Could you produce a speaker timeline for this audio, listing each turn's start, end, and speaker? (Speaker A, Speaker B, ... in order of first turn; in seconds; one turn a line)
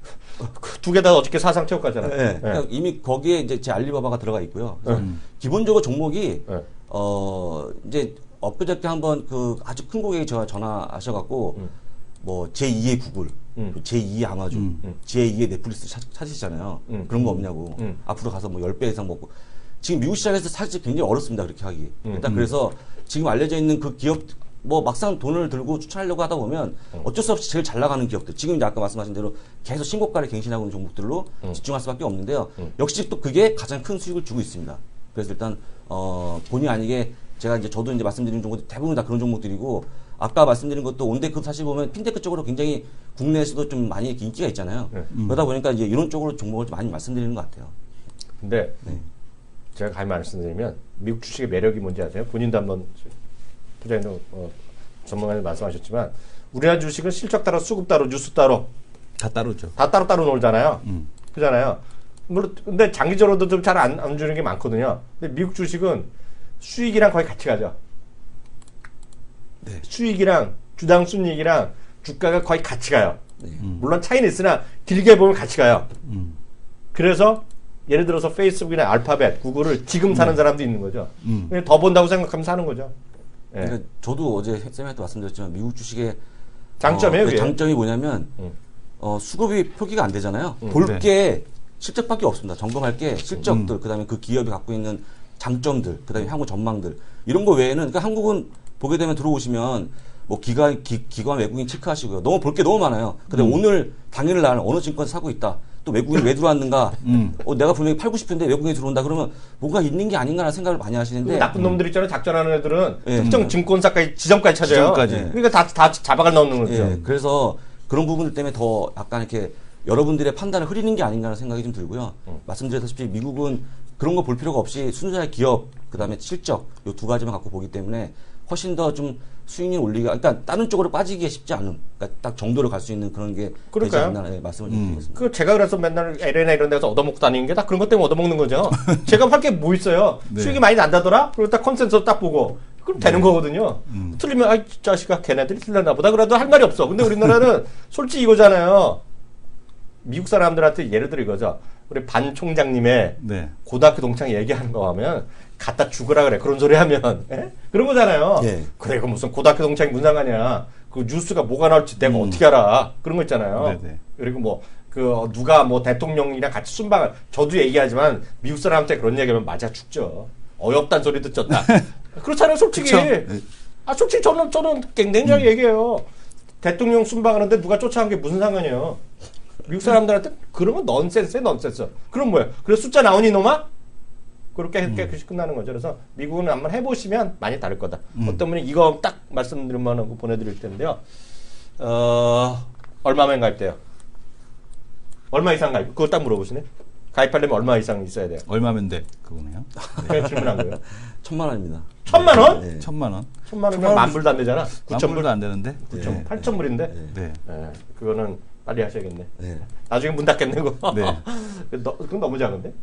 Speaker A: 0.5-2.6
Speaker B: 2.0-11.7
Speaker C: 4.9-5.2
Speaker B: 12.2-19.3
Speaker C: 14.5-14.8
Speaker A: 16.9-17.2
Speaker B: 19.8-47.7
Speaker A: 22.0-22.3
Speaker C: 45.1-45.5
Speaker A: 48.4-48.9
Speaker A: 49.7-53.1
Speaker A: 53.8-58.7
Speaker C: 59.2-59.7
Speaker A: 59.8-66.1
Speaker A: 66.6-67.8
Speaker A: 69.8-73.2
Speaker C: 73.6-73.9
Speaker A: 73.7-75.9
Speaker C: 76.0-76.4
Speaker A: 76.9-82.9
Speaker C: 81.2-81.5
Speaker B: 83.6-86.2
Speaker A: 86.8-87.6
Speaker B: 86.8-88.3
Speaker B: 89.0-111.5
Speaker C: 90.8-91.1
Speaker C: 93.5-93.7
Speaker C: 103.3-103.6
Speaker C: 107.0-107.4
Speaker A: 111.2-117.0
Speaker C: 111.5-111.8
Speaker B: 113.0-113.5
Speaker C: 113.2-113.5
Speaker C: 114.6-115.4
Speaker B: 115.0-115.4
Speaker B: 116.7-135.2
Speaker C: 116.7-117.0
Speaker A: 133.7-134.2
Speaker C: 134.7-135.0
Speaker A: 135.1-149.0
Speaker C: 140.3-140.6
Speaker C: 143.0-144.2
Speaker A: 150.0-173.3
Speaker C: 153.2-153.6
Speaker B: 158.4-158.7
Speaker C: 162.0-162.4
Speaker C: 163.6-164.0
Speaker C: 171.5-171.8
Speaker C: 172.7-173.4
Speaker A: 173.8-176.0
Speaker A: 176.6-179.0
Speaker A: 179.7-183.7
Speaker A: 184.5-191.0
Speaker C: 188.1-188.4
Speaker A: 191.8-193.8
Speaker A: 195.3-198.4
Speaker C: 198.5-200.3
Speaker B: 199.8-200.3
Speaker A: 200.0-200.8
Speaker B: 201.0-202.9
Speaker A: 202.1-202.7
Speaker C: 202.3-206.4
Speaker A: 203.5-205.3
Speaker A: 205.9-206.9
Speaker B: 205.9-207.1
Speaker C: 207.1-207.4
Speaker A: 207.4-212.7
Speaker B: 209.4-209.6
Speaker C: 210.9-211.2